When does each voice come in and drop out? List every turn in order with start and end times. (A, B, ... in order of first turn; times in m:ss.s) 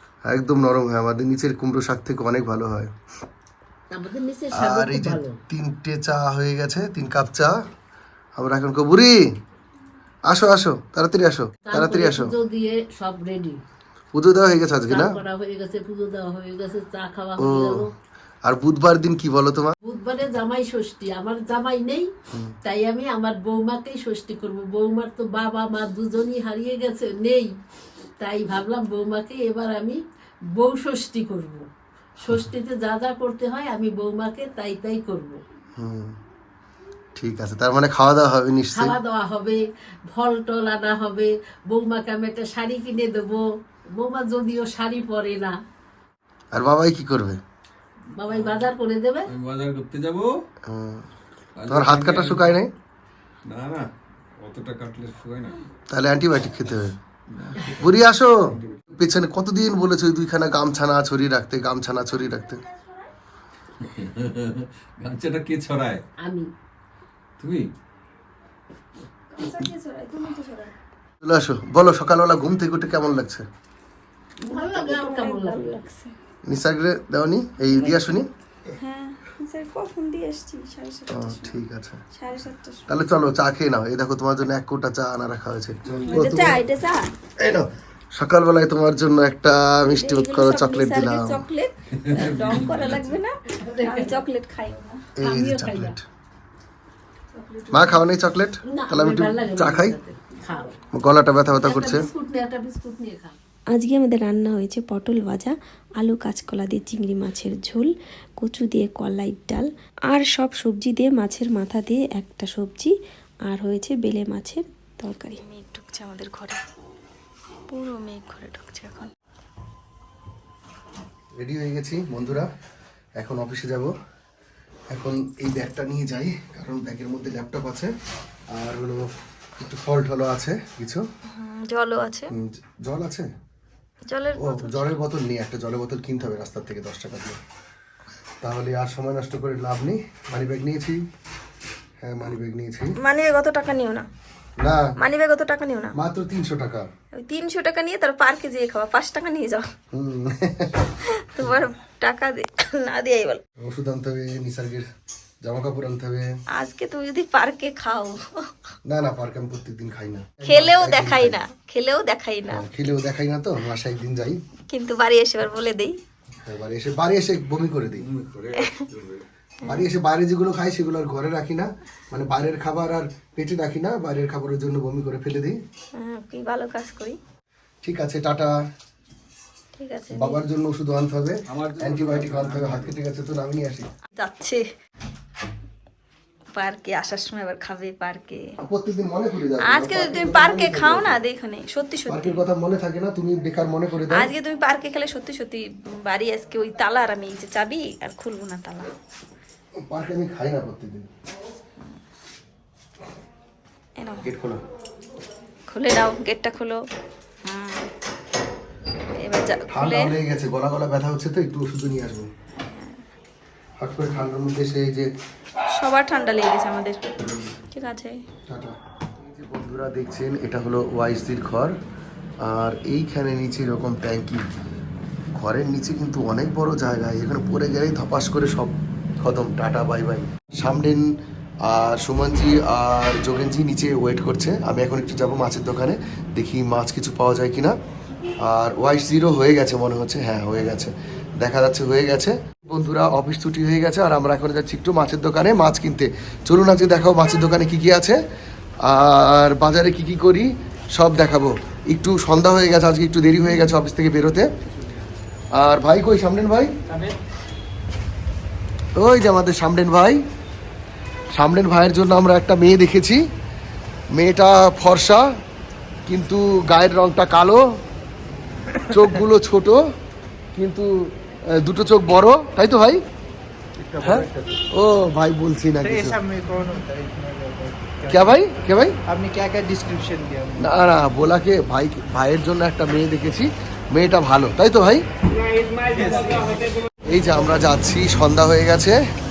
0:00.2-0:02.9 A
0:03.9-0:05.4 B
0:04.6-0:07.5 A
0:08.4-0:09.2 A
0:10.3-0:12.3 A
0:11.7-0:13.6 B
0:14.1-0:15.2 A
0:14.9-0:17.9 B
0:17.4-0:17.8 A
0:18.4-0:19.7 A
0:19.8-0:22.1 B
0:22.6-0:27.6 B
0:28.2-0:31.7 B
0:32.2-0:35.4 B
0:35.8-0:36.2 A
0:37.2-0:39.0 A
0:38.7-0:45.6 B
0:46.5-0:47.4 A
0:48.1-0:49.3 B
0:48.3-0:48.7 C
0:49.3-0:50.4 C
0:50.7-0:51.0 A
0:51.6-0:52.6 C
0:51.7-0:52.7 A
0:53.4-0:53.9 C
0:54.4-0:55.6 C
0:55.9-0:57.0 A
0:57.3-0:58.8 C
0:57.8-0:58.3 A
0:58.9-1:02.6 A
1:03.8-1:06.0 C
1:06.2-1:06.5 B
1:07.4-1:07.7 C
1:09.3-1:10.7 D
1:11.2-1:13.5 A
1:14.4-1:15.8 B
1:14.5-1:16.1 D
1:16.5-1:18.3 A
1:17.7-1:18.0 D
1:18.8-1:21.6 D
1:21.1-1:22.0 A
1:22.1-1:23.4 D
1:22.9-1:26.6 A
1:25.9-1:27.1 D
1:27.4-1:31.4 A
1:29.9-1:35.0 D
1:31.9-1:33.2 C
1:33.6-1:34.2 B
1:35.2-1:36.0 A
1:35.2-1:36.0 B
1:37.3-1:38.1 D
1:37.7-1:40.0 A
1:38.6-1:40.8 B
1:40.9-1:42.1 A
1:41.6-1:43.4 B
1:43.7-1:47.9 E
1:48.4-1:52.9 E
1:53.5-1:55.4 E
1:55.3-1:56.6 D
1:57.7-1:59.1 D
2:01.4-2:02.5 A
2:03.2-2:03.9 A
2:04.9-2:07.9 A
2:08.5-2:09.0 A
2:09.6-2:11.0 A
2:11.3-2:12.3 D
2:12.4-2:13.3 A
2:14.1-2:15.0 D
2:14.4-2:17.4 A
2:18.4-2:21.0 A
2:22.0-2:22.9 A
2:23.0-2:24.1 D
2:24.6-2:24.8 A
2:25.0-2:26.0 D
2:26.0-2:26.9 A
2:27.2-2:29.7 D
2:29.9-2:30.8 A
2:31.1-2:33.4 D
2:33.6-2:34.8 A
2:35.4-2:36.2 A
2:36.6-2:38.5 D
2:38.9-2:41.4 A
2:40.4-2:42.6 D
2:42.5-2:44.4 A
2:44.7-2:46.0 D
2:46.4-2:48.1 A
2:48.0-2:49.2 C
2:49.6-2:55.6 A
2:56.0-2:57.2 D
2:57.8-2:58.5 A
2:59.8-3:00.4 D
3:00.1-3:03.9 A
3:01.5-3:03.0 C
3:04.2-3:04.6 D
3:06.5-3:08.5 D
3:08.6-3:11.2 A
3:09.6-3:12.4 D
3:12.1-3:14.3 A
3:14.1-3:18.9 D
3:19.8-3:21.1 A
3:24.0-3:24.3 D
3:24.2-3:24.6 A
3:25.7-3:26.8 D
3:27.4-3:27.9 D
3:29.2-3:30.2 D
3:29.7-3:32.3 A
3:32.6-3:33.0 D
3:33.8-3:35.1 A
3:35.7-3:38.2 D
3:38.5-3:38.7 A
3:39.2-3:41.7 A
3:42.4-3:44.4 A
3:45.4-3:51.1 A
3:51.6-3:57.8 A
3:58.4-4:08.2 A
4:08.8-4:14.5 A
4:15.6-4:16.7 A
4:19.0-4:20.2 A
4:21.3-4:23.2 A
4:24.1-4:25.2 A
4:26.1-4:27.6 A
4:28.9-4:29.8 A
4:30.6-4:30.9 A
4:31.6-4:33.0 A
4:33.8-4:34.5 F
4:34.0-4:36.2 A
4:35.8-4:38.4 F
4:38.1-4:38.9 A
4:39.1-4:40.7 F
4:40.6-4:45.0 A
4:45.8-4:46.7 F
4:47.1-4:49.0 A